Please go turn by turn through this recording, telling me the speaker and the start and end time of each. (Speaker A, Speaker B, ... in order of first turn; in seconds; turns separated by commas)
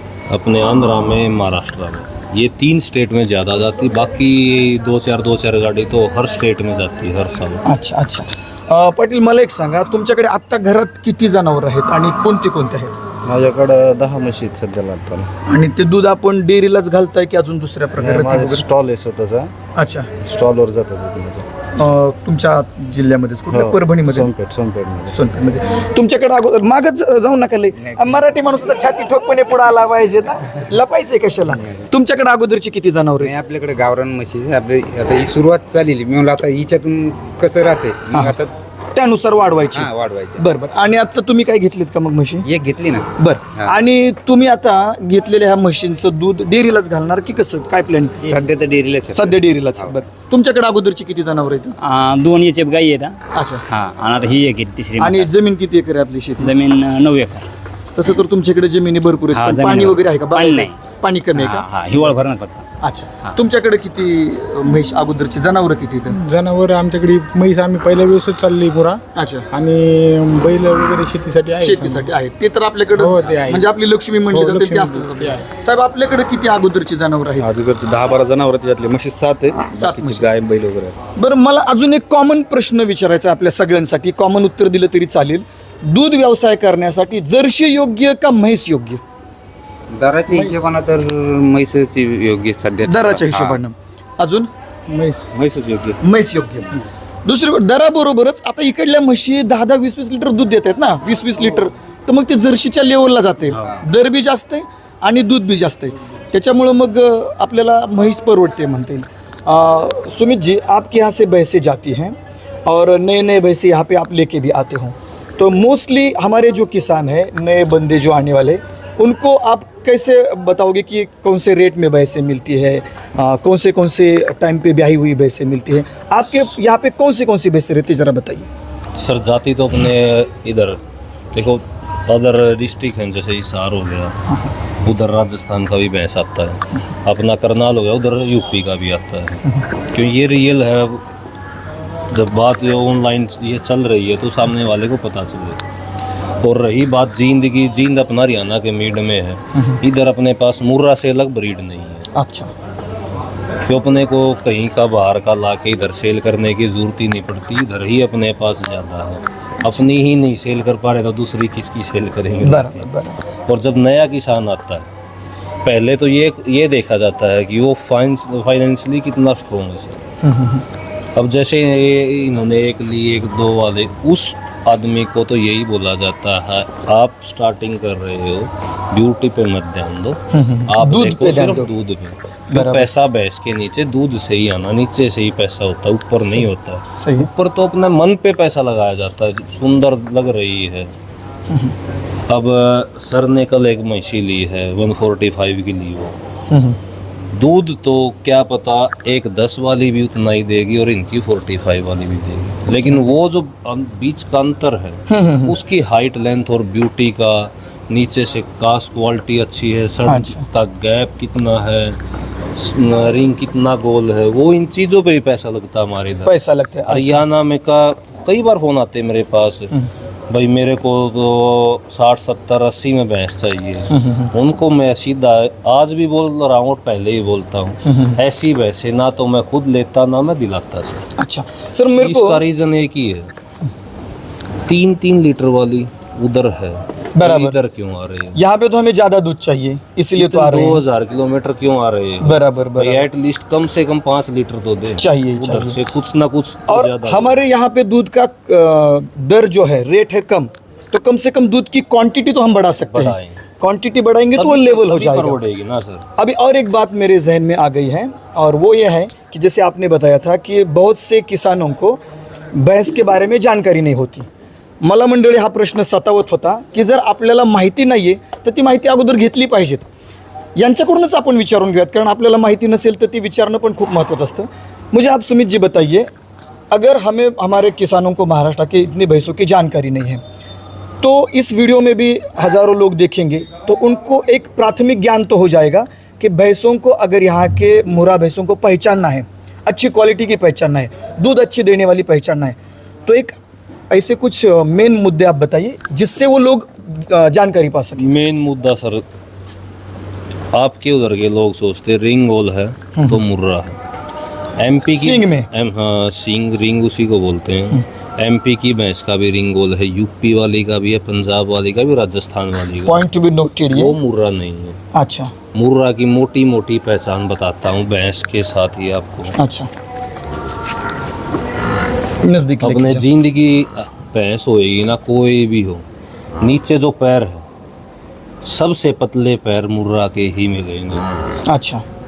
Speaker A: 0.3-7.6, Speaker B: 7.6-12.9, Speaker C: 13.2-15.3, Speaker B: 15.5-18.6, Speaker C: 18.0-19.5, Speaker B: 19.8-20.1, Speaker C: 20.2-21.5, Speaker B: 21.8-24.3, Speaker C: 23.5-25.1, Speaker B: 25.1-33.3, Speaker D: 33.2-38.5, Speaker B: 38.1-38.4, Speaker B: 39.0-42.5, Speaker D: 39.8-40.4, Speaker D: 42.5-43.8, Speaker B: 43.2-48.3, Speaker D: 48.2-49.9, Speaker B: 49.1-51.8, Speaker E: 51.8-55.3, Speaker B: 53.3-53.6, Speaker B: 55.0-56.5, Speaker E: 56.4-57.5, Speaker B: 58.0-61.7, Speaker E: 59.3-60.8, Speaker E: 61.4-62.7, Speaker B: 62.8-66.2, Speaker F: 66.1-69.0, Speaker B: 69.1-69.5, Speaker F: 69.5-72.1, Speaker B: 71.6-77.5, Speaker F: 72.9-73.7, Speaker F: 74.3-75.5, Speaker G: 77.4-81.0, Speaker B: 79.8-80.3, Speaker B: 81.2-89.0, Speaker D: 89.9-93.6, Speaker F: 90.3-90.6, Speaker B: 92.8-94.5, Speaker F: 94.9-95.7, Speaker B: 96.0-96.7, Speaker B: 97.2-128.5, Speaker A: 129.0-134.2, Speaker A: 134.8-141.1, Speaker A: 142.1-145.6, Speaker A: 146.4-152.1, Speaker B: 152.1-152.5, Speaker A: 153.7-162.9, Speaker B: 162.4-163.2, Speaker A: 163.5-164.9, Speaker A: 165.6-170.0, Speaker B: 170.2-170.6, Speaker A: 171.1-190.9, Speaker B: 180.3-181.7, Speaker B: 182.5-182.9, Speaker B: 186.2-187.3, Speaker B: 191.5-191.8, Speaker A: 192.3-196.2, Speaker B: 196.5-196.8, Speaker A: 197.3-212.0, Speaker B: 205.1-205.6, Speaker B: 210.1-210.5, Speaker A: 212.6-219.7, Speaker B: 216.2-217.2, Speaker A: 220.3-231.1, Speaker B: 223.9-224.3, Speaker B: 227.8-228.2, Speaker B: 231.2-232.4, Speaker A: 232.0-233.3, Speaker A: 234.7-238.4, Speaker B: 237.2-237.6, Speaker B: 238.3-240.8, Speaker A: 240.2-247.4, Speaker B: 242.2-243.1, Speaker B: 245.0-245.8, Speaker B: 246.7-255.4, Speaker A: 252.9-253.4, Speaker A: 254.3-256.1, Speaker B: 256.2-262.0, Speaker B: 262.5-264.3, Speaker B: 264.8-269.9, Speaker B: 270.6-276.1, Speaker B: 276.7-280.2, Speaker B: 281.0-293.4, Speaker B: 293.9-298.1, Speaker A: 298.0-299.1, Speaker A: 300.5-303.8, Speaker B: 302.9-303.2, Speaker A: 304.6-313.0, Speaker B: 304.8-305.5, Speaker B: 312.9-313.9, Speaker A: 313.7-314.8, Speaker B: 314.9-315.3, Speaker A: 315.5-319.4, Speaker B: 319.4-319.7, Speaker B: 322.2-323.1, Speaker A: 322.6-325.9, Speaker A: 326.4-327.5, Speaker A: 328.4-331.3, Speaker B: 331.5-331.9